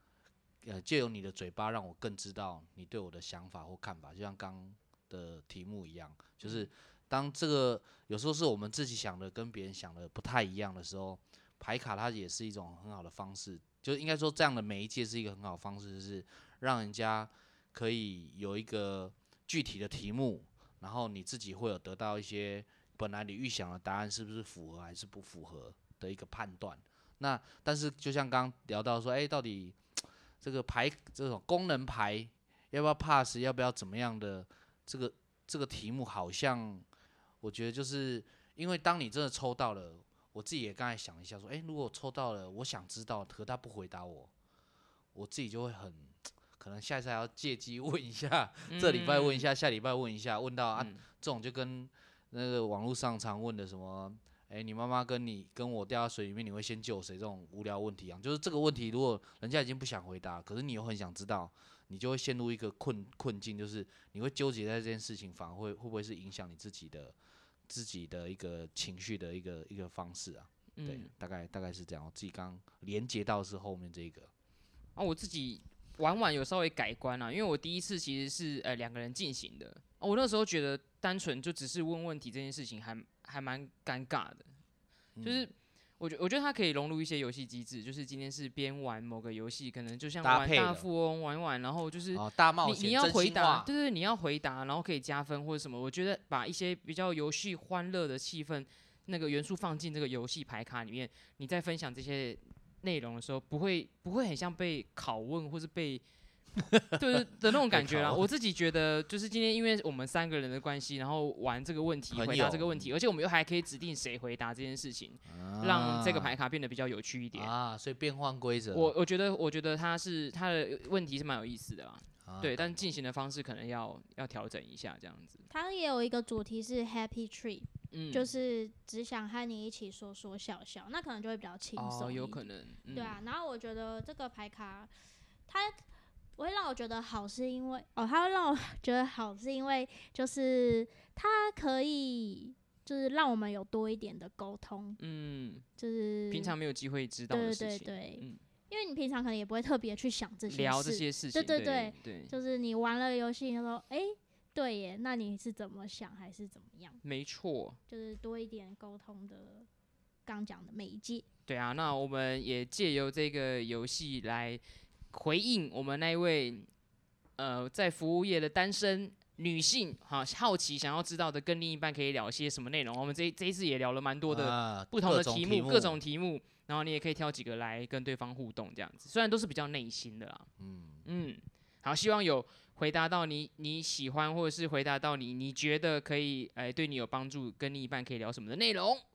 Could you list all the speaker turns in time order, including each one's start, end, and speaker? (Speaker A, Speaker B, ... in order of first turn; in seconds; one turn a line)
Speaker A: 0.6-29.8
Speaker B: 6.4-6.7
Speaker A: 30.4-36.9
Speaker A: 37.4-44.3
Speaker A: 45.1-67.1
Speaker B: 48.7-49.5
Speaker B: 50.8-51.0
Speaker A: 67.7-74.3
Speaker B: 70.8-71.1
Speaker B: 75.0-84.5
Speaker A: 85.2-85.5
Speaker B: 85.2-106.0
Speaker A: 90.2-90.8
Speaker A: 92.1-93.7
Speaker A: 106.6-108.2
Speaker B: 106.9-117.5
Speaker A: 112.1-112.9
Speaker A: 115.3-116.3
Speaker A: 117.3-118.9
Speaker B: 118.7-125.5
Speaker A: 122.2-122.9
Speaker C: 125.5-134.9
Speaker B: 127.9-128.3
Speaker B: 131.8-133.2
Speaker C: 135.5-135.8
Speaker C: 136.4-145.0
Speaker B: 145.0-145.6
Speaker C: 145.8-146.6
Speaker B: 146.3-148.4
Speaker C: 147.3-157.0
Speaker B: 150.5-152.3
Speaker B: 157.0-157.8
Speaker C: 157.9-159.7
Speaker C: 160.2-161.2
Speaker B: 161.5-166.7
Speaker B: 167.4-180.5
Speaker A: 174.3-176.0
Speaker A: 180.6-181.0
Speaker B: 181.0-189.0